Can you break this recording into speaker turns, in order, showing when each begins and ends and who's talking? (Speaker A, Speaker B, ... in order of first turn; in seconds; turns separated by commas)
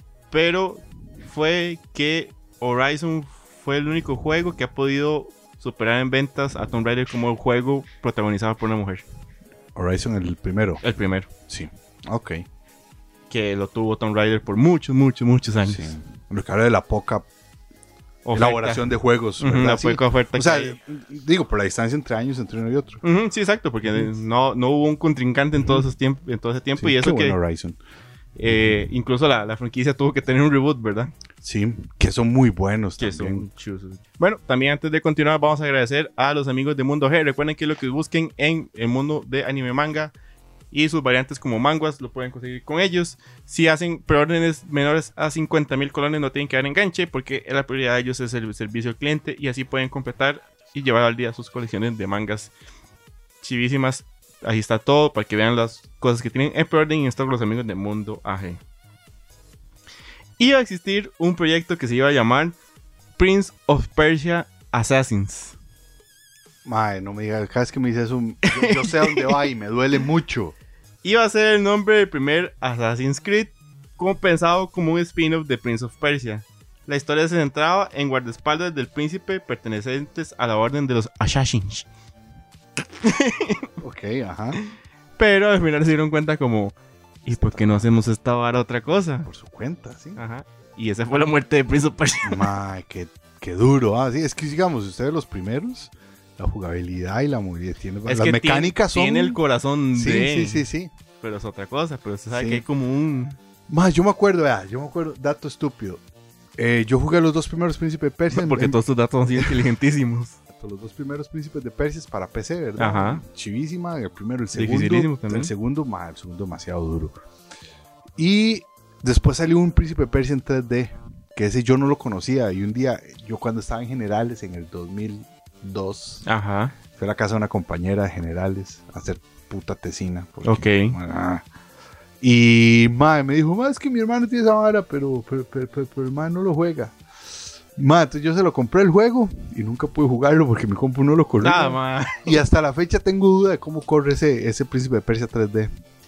Speaker A: 0.3-9.0, Speaker B: 9.7-10.8, Speaker A: 10.8-11.3, Speaker B: 11.5-12.4, Speaker A: 13.3-15.9, Speaker B: 15.6-17.3, Speaker A: 18.2-18.9, Speaker B: 18.3-23.0, Speaker A: 19.4-20.8, Speaker A: 23.0-27.4, Speaker B: 26.8-27.8, Speaker A: 28.4-31.1, Speaker B: 31.4-33.5, Speaker A: 33.0-40.1, Speaker A: 40.7-52.5, Speaker A: 53.4-58.6, Speaker A: 60.4-62.6, Speaker A: 63.2-65.5, Speaker B: 66.6-70.5, Speaker A: 68.5-69.3, Speaker A: 71.0-81.8, Speaker A: 83.0-83.7, Speaker B: 83.8-84.6, Speaker A: 85.2-89.3, Speaker B: 87.3-87.8, Speaker B: 89.2-90.2, Speaker A: 90.2-92.5, Speaker B: 92.2-99.4, Speaker A: 98.0-100.7, Speaker B: 99.9-100.9, Speaker A: 101.2-103.4, Speaker B: 102.3-102.6, Speaker B: 103.7-106.0, Speaker B: 106.6-108.8, Speaker A: 108.3-110.4, Speaker B: 109.3-109.7, Speaker B: 110.5-117.1, Speaker A: 112.8-113.2, Speaker A: 114.5-115.5, Speaker B: 118.2-126.2, Speaker A: 126.2-126.7, Speaker B: 126.9-131.4, Speaker A: 130.4-131.0, Speaker B: 132.2-136.9, Speaker B: 137.8-145.7, Speaker A: 141.4-142.4